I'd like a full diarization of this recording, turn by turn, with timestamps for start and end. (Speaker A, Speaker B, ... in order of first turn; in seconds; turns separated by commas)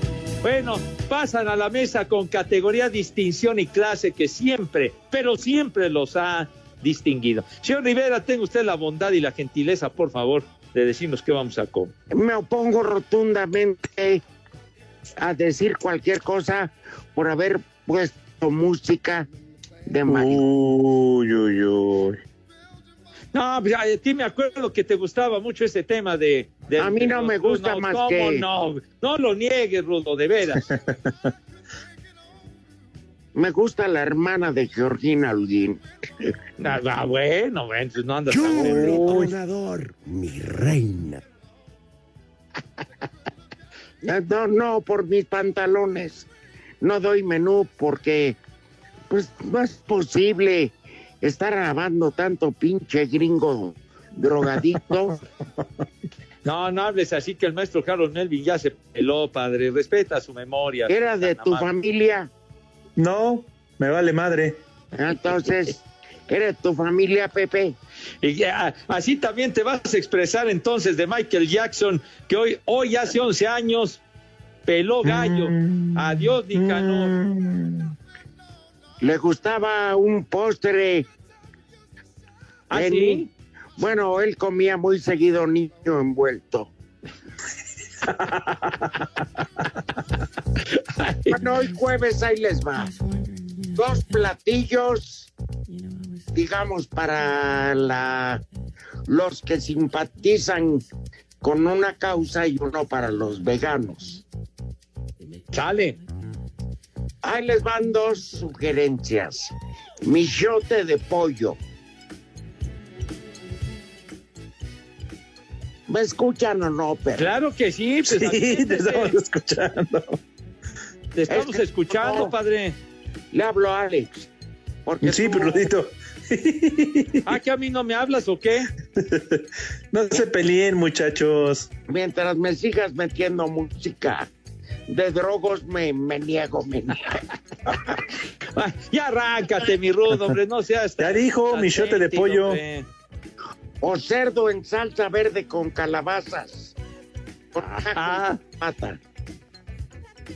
Speaker A: 0.4-11.9, Speaker B: 12.1-14.2, Speaker B: 15.2-19.3, Speaker B: 19.9-20.4, Speaker C: 20.1-22.2, Speaker A: 23.3-30.6, Speaker B: 26.8-28.4, Speaker C: 30.7-31.1, Speaker B: 33.3-35.8, Speaker A: 36.6-39.2, Speaker D: 38.3-41.2, Speaker C: 38.5-39.3, Speaker B: 44.0-46.3, Speaker B: 46.8-48.4, Speaker B: 49.1-55.2, Speaker A: 56.4-61.7, Speaker B: 60.9-62.3, Speaker C: 63.0-64.6, Speaker B: 64.9-67.8, Speaker A: 68.2-74.0, Speaker A: 74.7-77.1, Speaker C: 75.0-77.9, Speaker B: 79.0-81.1, Speaker A: 82.7-83.3, Speaker B: 82.7-83.3, Speaker B: 83.8-86.7, Speaker A: 90.7-91.4, Speaker B: 91.3-92.9, Speaker B: 93.7-95.3, Speaker B: 96.3-98.4, Speaker B: 99.1-100.8, Speaker B: 101.4-104.2, Speaker A: 105.5-106.0, Speaker B: 107.2-111.6, Speaker B: 115.9-117.3, Speaker A: 117.2-119.2, Speaker C: 118.1-120.2, Speaker A: 121.1-122.8, Speaker B: 121.3-122.3, Speaker B: 123.3-124.3, Speaker B: 124.8-125.7, Speaker C: 125.0-127.2, Speaker A: 127.2-128.7, Speaker C: 129.0-131.7, Speaker B: 131.9-134.3, Speaker B: 134.9-137.2, Speaker A: 138.6-142.9, Speaker C: 141.0-142.6, Speaker B: 143.8-146.7, Speaker B: 147.5-149.0, Speaker A: 147.7-148.4